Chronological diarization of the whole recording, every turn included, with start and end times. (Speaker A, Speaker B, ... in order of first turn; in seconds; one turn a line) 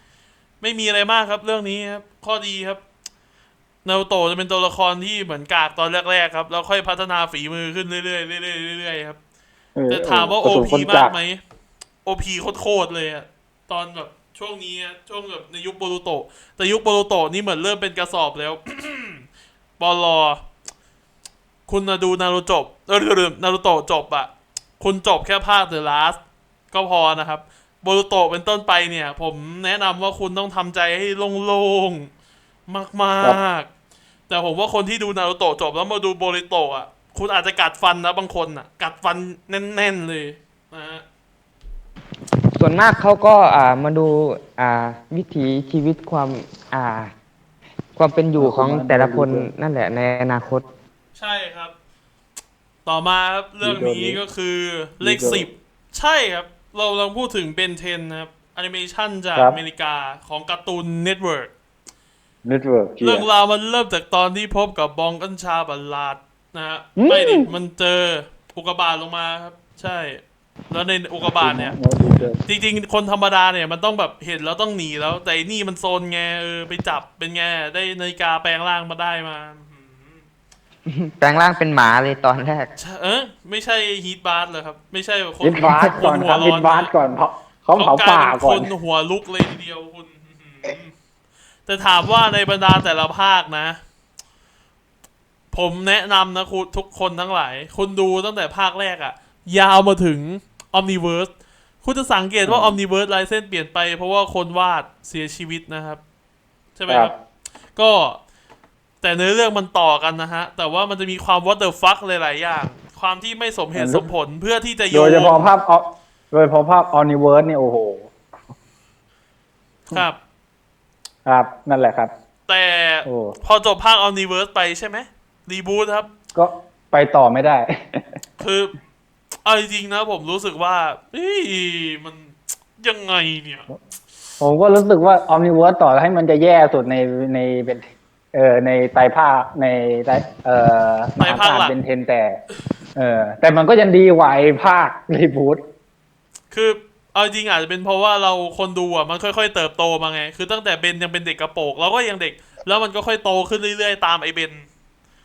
Speaker A: 0.6-2.8
Speaker A: 3.9-9.2
Speaker B: 9.8-11.2
Speaker A: 9.9-11.4
Speaker A: 12.1-19.2
Speaker A: 19.8-20.4
Speaker A: 21.7-26.2
Speaker A: 26.7-32.1
Speaker A: 32.7-33.7
Speaker A: 34.3-41.0
Speaker C: 42.5-47.1
Speaker C: 48.0-50.6
Speaker B: 48.4-49.5
Speaker A: 51.1-51.7
Speaker A: 52.9-61.5
Speaker B: 53.6-54.2
Speaker B: 55.0-55.5
Speaker B: 62.4-63.3
Speaker A: 63.0-80.2
Speaker B: 67.0-67.5
Speaker B: 71.4-72.4
Speaker C: 80.9-82.7
Speaker A: 82.8-86.9
Speaker B: 85.4-88.7
Speaker A: 87.8-90.9
Speaker A: 91.7-93.8
Speaker A: 95.5-101.3
Speaker A: 101.8-106.0
Speaker B: 102.5-102.8
Speaker A: 106.8-107.1
Speaker A: 107.8-108.2
Speaker A: 109.0-115.5
Speaker B: 113.8-114.1
Speaker B: 114.9-118.1
Speaker A: 119.9-120.2
Speaker B: 121.2-122.1
Speaker A: 122.5-126.1
Speaker B: 123.1-123.3
Speaker B: 126.3-128.2
Speaker A: 128.4-128.8
Speaker A: 129.4-133.7
Speaker B: 134.4-142.4
Speaker A: 141.2-141.8
Speaker B: 143.0-145.6
Speaker A: 146.5-154.7